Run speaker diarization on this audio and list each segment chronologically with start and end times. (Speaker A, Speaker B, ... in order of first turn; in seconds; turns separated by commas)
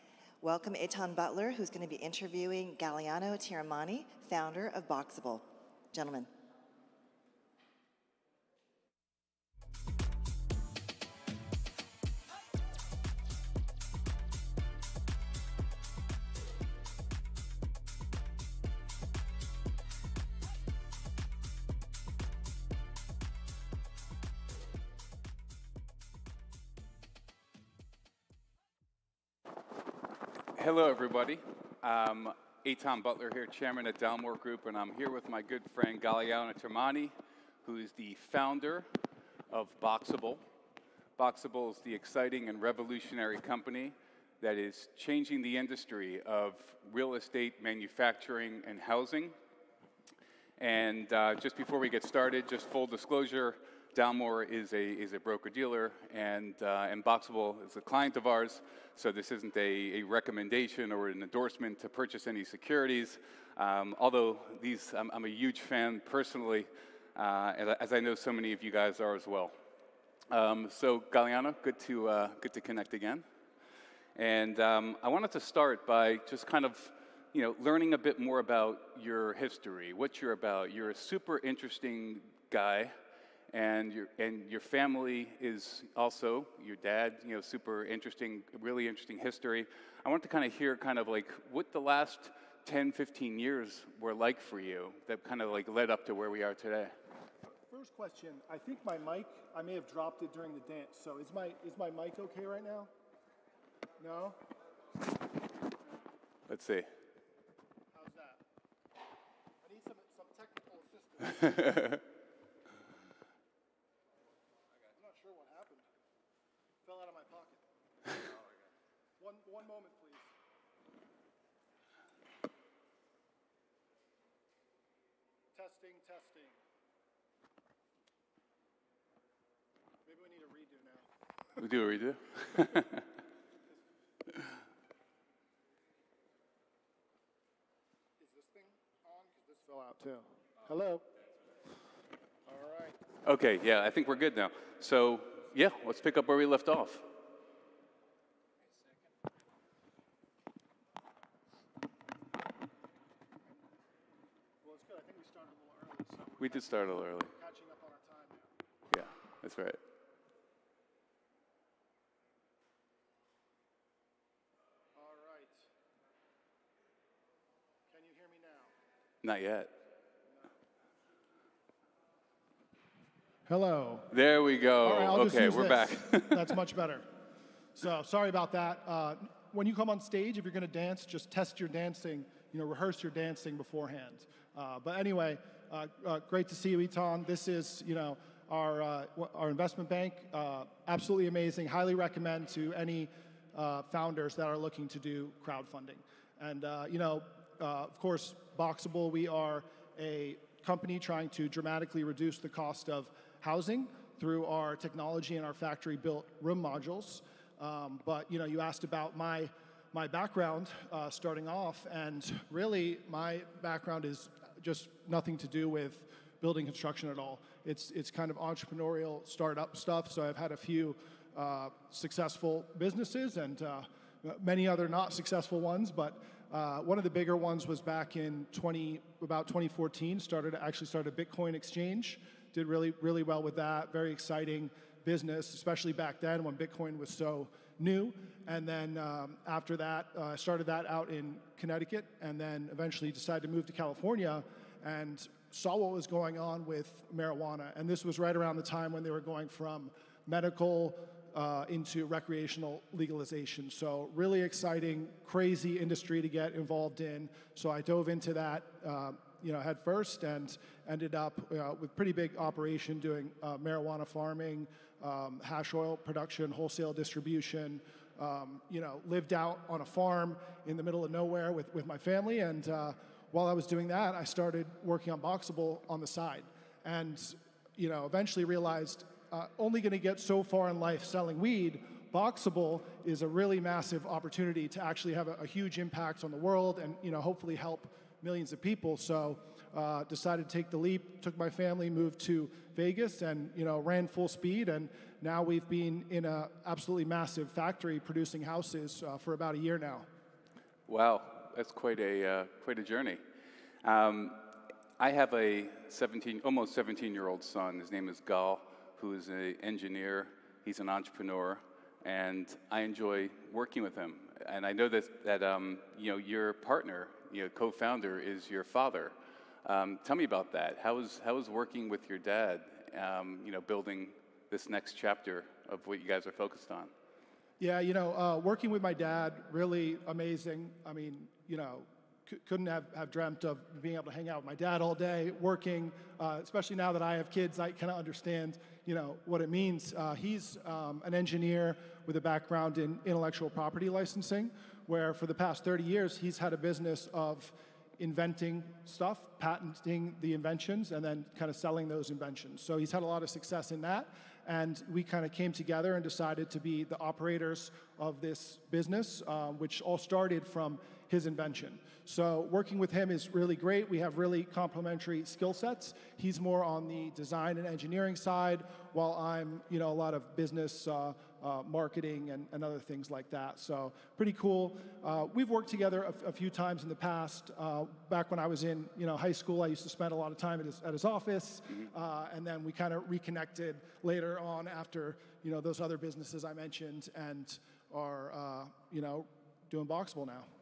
Speaker A: 0.4-6.3, Speaker B: 30.5-38.9, Speaker B: 39.5-40.4, Speaker B: 41.2-49.3, Speaker B: 50.6-69.5, Speaker B: 70.3-73.2, Speaker B: 74.1-82.9, Speaker B: 83.5-96.9, Speaker C: 97.7-102.9, Speaker C: 104.0-104.4, Speaker B: 106.5-106.9, Speaker C: 107.9-108.4, Speaker C: 109.6-111.9, Speaker C: 114.9-115.9, Speaker C: 116.8-117.6, Speaker C: 119.2-120.3, Speaker C: 125.5-126.6, Speaker C: 130.1-131.0, Speaker B: 131.6-133.1, Speaker C: 138.2-141.0, Speaker C: 142.5-143.0, Speaker B: 143.2-147.1, Speaker C: 154.6-156.5, Speaker B: 156.4-157.3, Speaker C: 157.3-158.5, Speaker B: 158.9-159.8, Speaker C: 164.9-165.7, Speaker C: 167.9-168.7, Speaker B: 169.2-169.7, Speaker C: 173.5-174.1, Speaker B: 174.1-176.5, Speaker C: 174.8-177.0, Speaker C: 177.7-300.1, Speaker B: 300.9-303.2, Speaker B: 303.8-326.9, Speaker C: 327.6-390.5